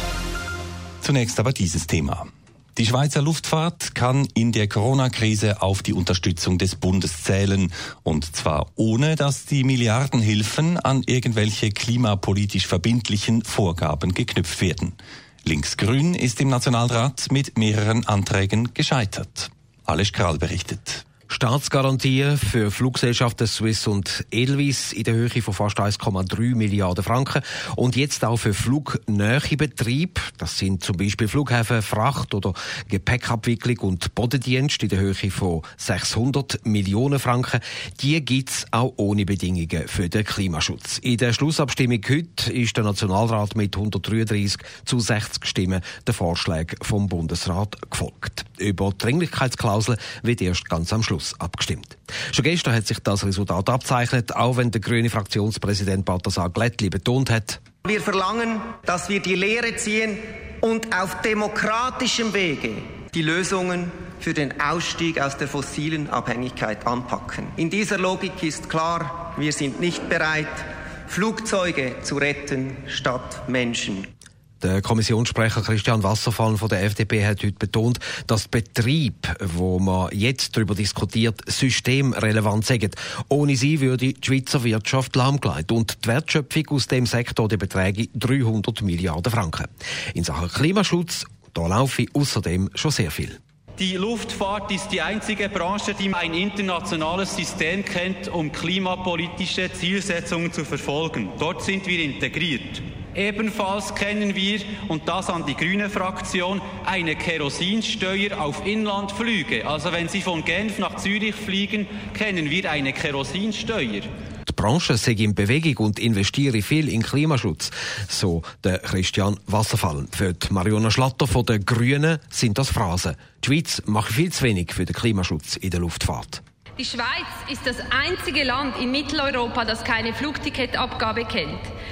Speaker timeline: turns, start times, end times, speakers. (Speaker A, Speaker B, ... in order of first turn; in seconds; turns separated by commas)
Speaker A: 1.0-21.0, Speaker B: 21.3-57.8, Speaker C: 57.8-74.1, Speaker B: 74.6-93.4, Speaker D: 93.8-114.1, Speaker B: 114.5-126.4, Speaker E: 126.8-131.7